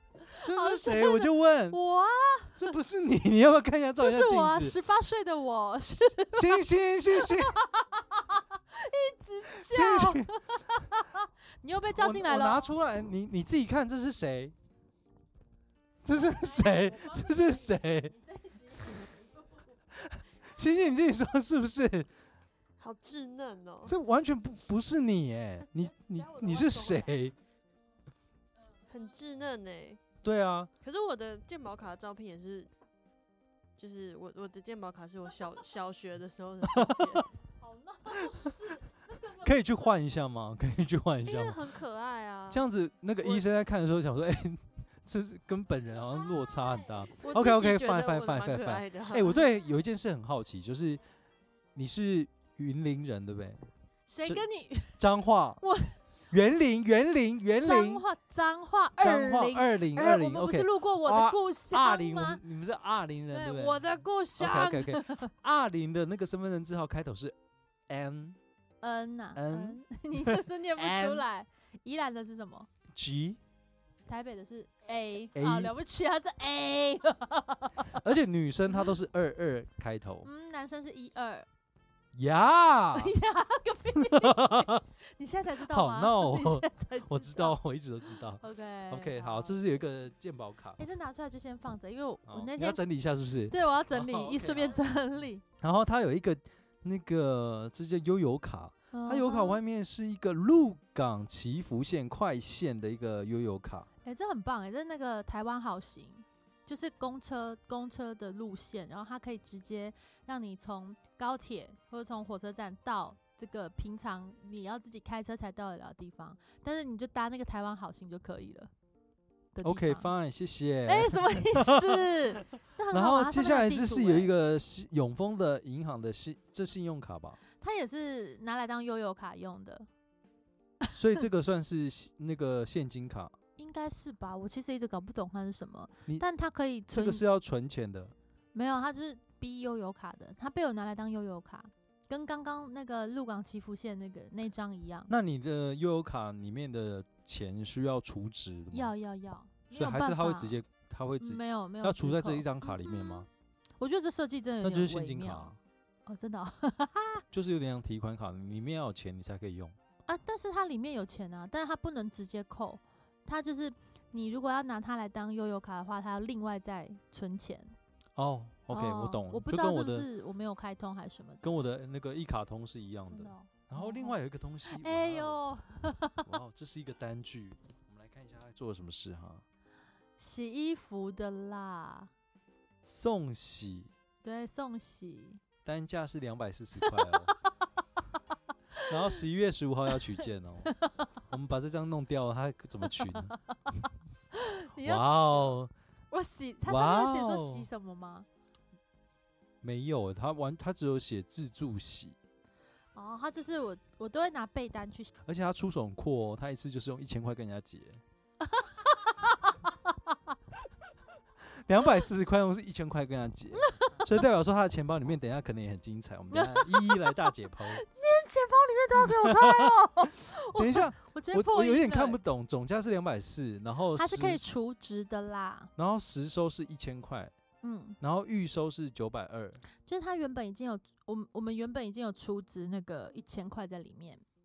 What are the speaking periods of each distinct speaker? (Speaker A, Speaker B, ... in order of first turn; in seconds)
Speaker A: 0.2-2.6, 4.0-12.7, 16.1-19.7, 37.6-39.6, 54.1-55.0, 55.6-56.0, 57.6-62.4, 63.3-65.3, 68.8-72.7, 74.1-78.0, 80.2-81.5, 82.9-87.6, 88.4-89.5, 90.8-92.8, 93.5-95.4, 98.9-99.6, 104.0-118.7, 119.5-120.1, 120.8-124.3, 127.6-129.9, 133.6-137.2, 138.5-145.1, 148.7-150.6, 151.2-153.3, 153.8-155.5, 156.1-157.2, 160.1-167.7, 168.7-171.6, 173.1-176.3, 180.2-182.1, 184.2-185.4, 186.8-187.5, 188.7-189.2, 190.6-191.2, 192.9-193.4, 194.3-195.5, 196.1-198.3, 202.9-205.1, 208.5-210.1, 213.5-214.0, 216.3-222.2, 223.9-225.7, 227.6-228.0, 229.8-234.2
Speaker B: 0.3-1.8, 2.5-4.8, 6.1-7.6, 9.5-10.3, 11.9-14.5, 16.0-18.1, 19.9-22.1, 23.9-27.3, 30.2-30.7, 36.7-37.2, 38.1-38.7, 39.3-41.8, 42.5-51.0, 51.8-53.6, 55.0-55.6, 56.3-58.0, 59.0-67.3, 67.9-68.4, 69.3-71.2, 72.9-73.4, 75.3-75.7, 77.9-80.3, 82.1-83.1, 84.0-84.8, 85.6-90.8, 92.3-94.8, 95.6-103.9, 119.6-122.2, 122.9-127.4, 130.9-133.3, 136.9-138.1, 145.1-148.9, 149.7-153.3, 154.6-155.6, 157.3-159.8, 168.2-170.1, 171.4-175.4, 176.2-179.4, 182.8-183.9, 185.6-187.3, 188.8-190.7, 191.3-193.8, 194.7-195.7, 196.6-197.7, 199.6-202.2, 205.2-208.0, 211.5-217.8, 218.9-224.5, 225.8-227.3, 228.0-229.6
Speaker C: 22.8-23.9, 25.7-27.3, 28.9-30.0, 30.8-32.7, 33.8-37.3, 41.2-42.6, 43.2-43.5, 47.1-49.4